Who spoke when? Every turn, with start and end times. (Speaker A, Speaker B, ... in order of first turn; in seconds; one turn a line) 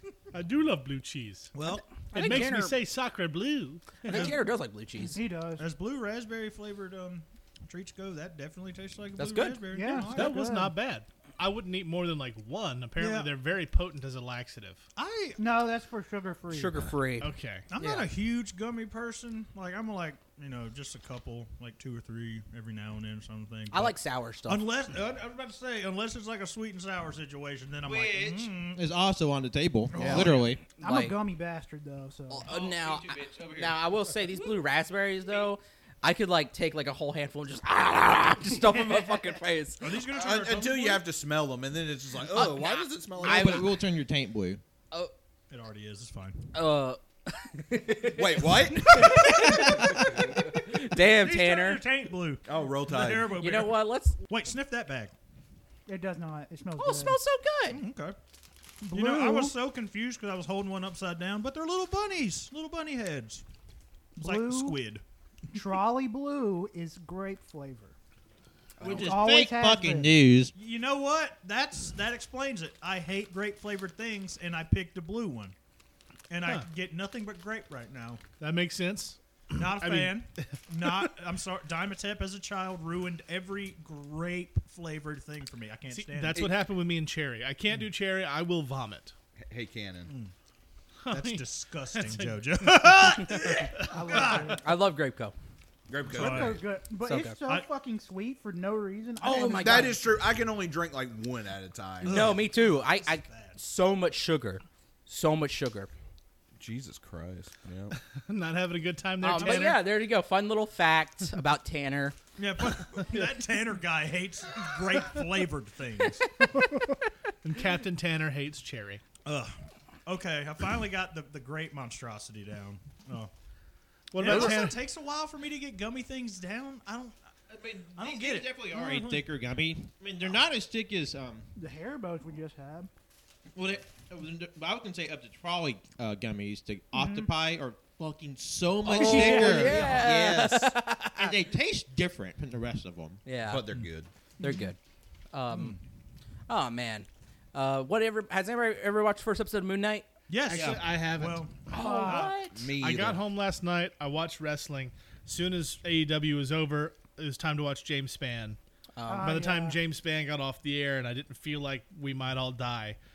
Speaker A: 0.3-1.5
Speaker B: 1.5-2.4
Speaker C: 2.1-2.8
Speaker A: 2.1-4.1
Speaker B: 4.0-4.4
Speaker C: 4.0-5.2
Speaker D: 5.2-5.7
Speaker B: 5.6-10.4
Speaker C: 9.2-9.8
Speaker D: 9.7-10.8
Speaker A: 9.9-14.8
Speaker B: 13.0-13.3
Speaker B: 15.0-15.4
Speaker D: 15.4-16.8
Speaker C: 16.5-18.1
Speaker A: 17.2-17.7
Speaker B: 17.7-24.0
Speaker C: 23.7-24.7
Speaker B: 24.5-28.8
Speaker E: 27.9-30.6
Speaker B: 29.9-30.6
Speaker C: 29.9-31.1
Speaker D: 30.8-32.5
Speaker C: 32.3-39.9
Speaker E: 32.5-33.8
Speaker B: 39.8-41.0
Speaker F: 40.1-43.7
Speaker C: 42.3-43.7
Speaker E: 43.2-44.6
Speaker B: 45.5-46.5
Speaker C: 46.5-51.8
Speaker F: 48.1-50.0
Speaker B: 48.9-55.1
Speaker F: 52.4-53.4
Speaker C: 53.4-54.2
Speaker D: 55.9-57.2
Speaker C: 56.8-57.8
Speaker B: 57.7-58.2
Speaker D: 58.8-59.5
Speaker B: 58.9-63.4
Speaker D: 64.2-64.8
Speaker B: 64.2-65.0
Speaker D: 65.5-68.0
Speaker C: 68.8-69.2
Speaker E: 68.8-70.5
Speaker D: 68.8-70.1
Speaker B: 70.5-75.5
Speaker B: 76.3-78.2
Speaker A: 78.4-81.1
Speaker B: 79.5-86.5
Speaker A: 85.9-89.1
Speaker F: 89.5-90.1
Speaker B: 90.1-90.3
Speaker A: 91.1-93.2
Speaker B: 91.1-94.6
Speaker D: 93.8-94.6
Speaker C: 94.1-95.3
Speaker F: 95.9-96.6
Speaker B: 96.1-96.6
Speaker D: 96.1-100.0
Speaker C: 97.0-97.4
Speaker C: 99.2-100.0
Speaker F: 99.2-102.3
Speaker B: 102.0-103.6
Speaker C: 102.0-105.9
Speaker F: 106.6-108.0
Speaker A: 108.2-109.8
Speaker C: 109.2-112.2
Speaker B: 112.4-116.3
Speaker A: 116.5-116.8
Speaker A: 117.4-119.0
Speaker B: 119.2-119.5
Speaker B: 120.1-123.3
Speaker A: 124.1-124.8
Speaker B: 124.2-127.2
Speaker E: 127.5-131.5
Speaker B: 128.0-129.2
Speaker D: 131.6-132.9
Speaker E: 133.6-143.2
Speaker D: 136.9-137.3
Speaker C: 138.8-141.4
Speaker B: 138.9-140.0
Speaker D: 139.1-139.8
Speaker C: 143.2-143.7
Speaker F: 143.5-144.1
Speaker C: 144.4-144.8
Speaker C: 145.3-145.8
Speaker B: 145.5-145.8
Speaker C: 146.5-150.1
Speaker B: 150.3-152.4
Speaker A: 150.5-151.5
Speaker E: 150.5-150.8
Speaker C: 151.7-152.6
Speaker D: 151.8-152.3
Speaker F: 152.5-153.2
Speaker A: 152.7-158.6
Speaker C: 159.0-159.4
Speaker D: 159.1-159.8
Speaker A: 159.2-163.0